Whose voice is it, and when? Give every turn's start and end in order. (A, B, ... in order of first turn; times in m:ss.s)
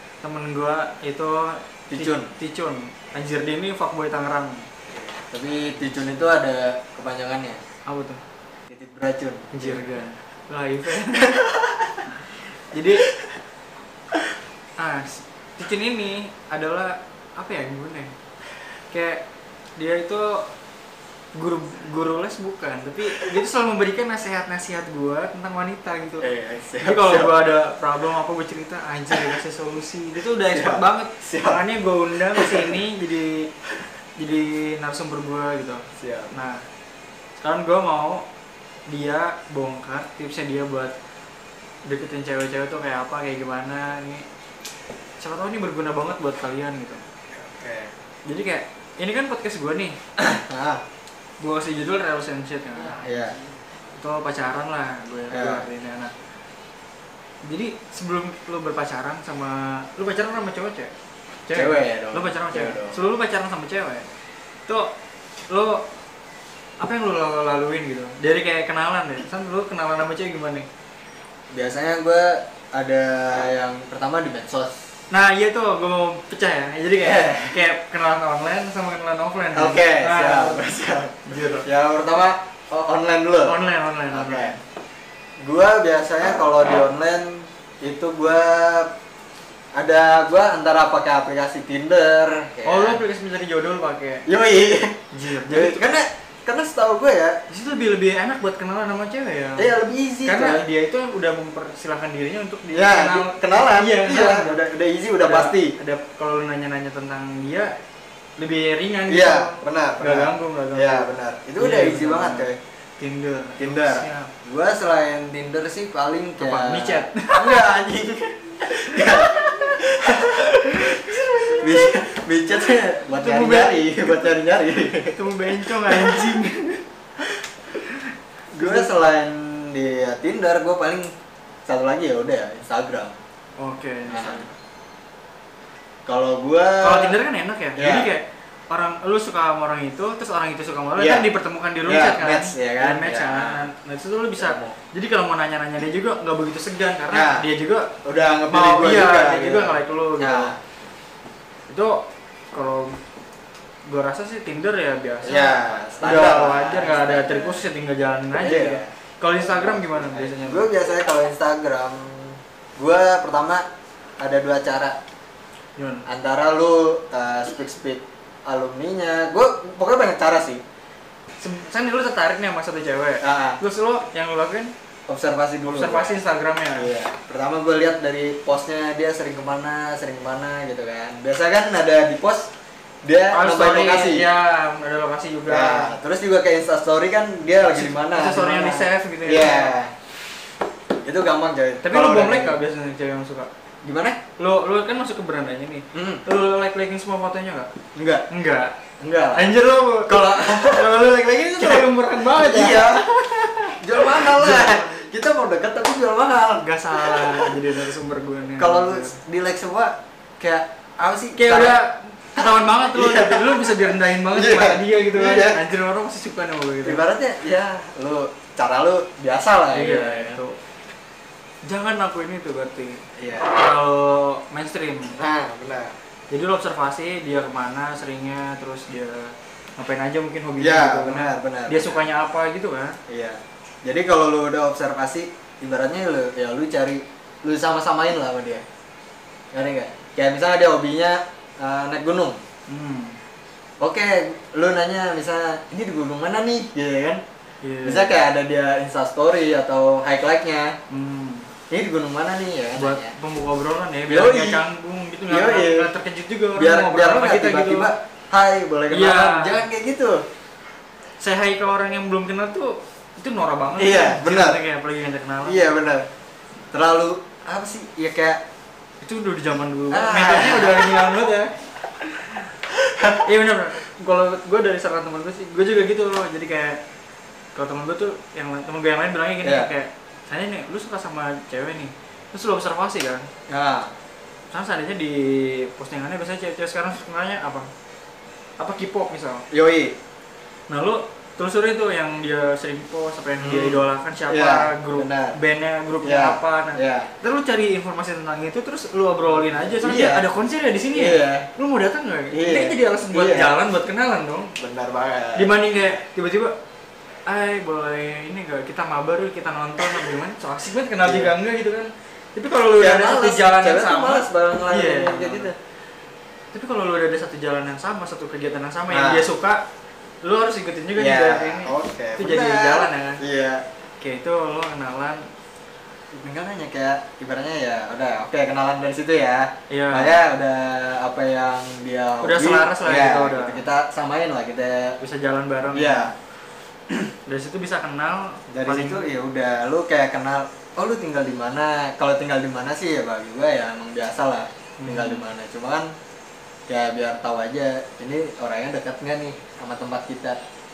0:00.2-0:04.6 A
0:01.9-0:02.3 B
0:04.9-0:07.6 B
0:07.9-0:08.2 A
0:08.7-0:10.0 B
0:09.5-0:11.4 A
0:11.2-0:12.0 B
0:12.7-0:13.1 A
0:14.8-0:18.1 A
0:18.9-0:19.2 A
0:19.8-0:20.5 A
0:21.3-0:26.2 A
0:26.2-0:27.5 B
0:26.8-0:33.5 A
0:29.1-0:29.4 B
0:30.4-0:31.6 B
0:32.3-0:32.7 B
0:34.2-0:36.6 A
0:36.0-0:36.3 B
0:37.4-0:38.2 A
0:38.9-0:40.9 A
0:41.8-0:44.2 A
0:45.2-0:47.0 A
0:47.3-0:47.9 B
0:48.2-0:50.0 A
0:50.2-0:50.8 B
0:51.4-0:53.1 A
0:53.0-0:53.4 B
0:53.9-0:56.1 A
0:55.3-0:55.7 B
0:57.4-1:00.9 A
1:01.4-1:04.1 A
1:01.5-1:03.0 B
1:05.5-1:05.8 A
1:06.8-1:10.7 A
1:11.5-1:14.9 B
1:15.1-1:20.7 A
1:17.0-1:17.6 B
1:19.5-1:23.6 B
1:21.2-1:21.6 A
1:23.4-1:24.6 A
1:24.1-1:24.6 B
1:25.4-1:28.9 B
1:29.8-1:33.0 B
1:32.6-1:34.2 A
1:34.3-1:37.4 B
1:35.1-1:36.0 A
1:37.5-1:44.6 A
1:39.6-1:40.7 B
1:42.7-1:45.7 B
1:45.2-1:47.7 A
1:48.4-1:52.5 A
1:49.1-1:52.6 B
1:53.0-1:54.3 A
1:53.6-2:06.5 B
1:56.4-1:57.6 A
1:58.9-2:02.0 A
2:03.1-2:04.3 A
2:05.0-2:06.8 A
2:08.5-2:11.1 B
2:08.5-2:08.9 A
2:11.7-2:13.1 B
2:13.6-2:14.5 A
2:14.1-2:14.5 B
2:16.1-2:17.2 B
2:16.8-2:27.9 A
2:17.8-2:18.1 B
2:21.0-2:21.3 B
2:21.8-2:23.7 B
2:24.4-2:24.8 B
2:27.1-2:27.4 B
2:28.0-2:30.8 B
2:28.5-2:30.5 A
2:31.7-2:33.0 A
2:33.9-2:40.7 A
2:35.2-2:37.6 B
2:38.4-2:43.6 B
2:44.2-2:45.0 B
2:45.8-2:46.0 A
2:46.1-2:50.6 B
2:51.4-2:54.7 A
2:53.2-2:53.6 B
2:55.1-2:56.2 B
2:55.6-2:56.9 A
2:56.7-3:02.5 B
3:03.0-3:04.3 B
3:03.3-3:05.9 A
3:05.5-3:09.9 B
3:07.6-3:09.7 A
3:11.0-3:12.6 B
3:11.8-3:13.5 A
3:13.8-3:14.2 B
3:14.4-3:17.7 A
3:15.9-3:16.2 B
3:17.9-3:18.2 B
3:18.3-3:18.8 A
3:19.0-3:21.0 B
3:19.3-3:23.0 A
3:21.6-3:27.7 B
3:23.7-3:25.1 A
3:26.6-3:29.1 A
3:28.6-3:31.8 B
3:31.4-3:37.0 A
3:32.4-3:35.6 B
3:36.8-3:40.4 B
3:39.7-3:40.6 A
3:41.7-3:45.2 A
3:43.2-3:43.5 B
3:45.2-3:45.9 B
3:46.3-3:53.0 A
3:50.6-3:52.0 B
3:53.1-3:58.6 B
3:59.5-4:02.4 B
4:02.7-4:03.2 A
4:03.8-4:07.2 B
4:07.6-4:08.2 A
4:07.8-4:10.7 B
4:10.9-4:11.5 A
4:11.7-4:13.1 B
4:12.8-4:17.9 A
4:14.1-4:14.6 B
4:15.3-4:15.9 B
4:16.6-4:20.2 B
4:18.9-4:19.6 A
4:21.2-4:25.7 A
4:23.8-4:24.6 B
4:25.4-4:26.0 B
4:26.7-4:28.4 B
4:29.0-4:31.6 A
4:29.9-4:31.2 B
4:32.7-4:33.2 B
4:33.2-4:36.8 A
4:37.5-4:43.3 A
4:39.4-4:39.7 B
4:43.5-4:43.9 B
4:44.5-4:47.7 A
4:48.6-4:49.4 A
4:49.5-4:50.0 B
4:50.7-5:04.5 A
4:53.4-4:55.4 B
4:56.0-4:57.1 B
4:59.3-5:00.2 B
5:00.9-5:01.5 B
5:02.3-5:03.6 B
5:04.6-5:05.5 B
5:05.4-5:06.5 A
5:07.3-5:15.5 A
5:11.0-5:11.3 B
5:12.8-5:15.6 B
5:16.5-5:19.6 A
5:18.9-5:19.3 B
5:20.2-5:23.2 A
5:21.0-5:23.6 B
5:24.0-5:25.2 A
5:26.1-5:35.0 B
5:29.7-5:30.2 A
5:32.2-5:33.6 A
5:35.0-5:36.1 A
5:35.7-5:36.1 B
5:36.9-5:39.1 A
5:38.5-5:45.9 B
5:44.8-5:45.2 A
5:46.7-5:50.4 B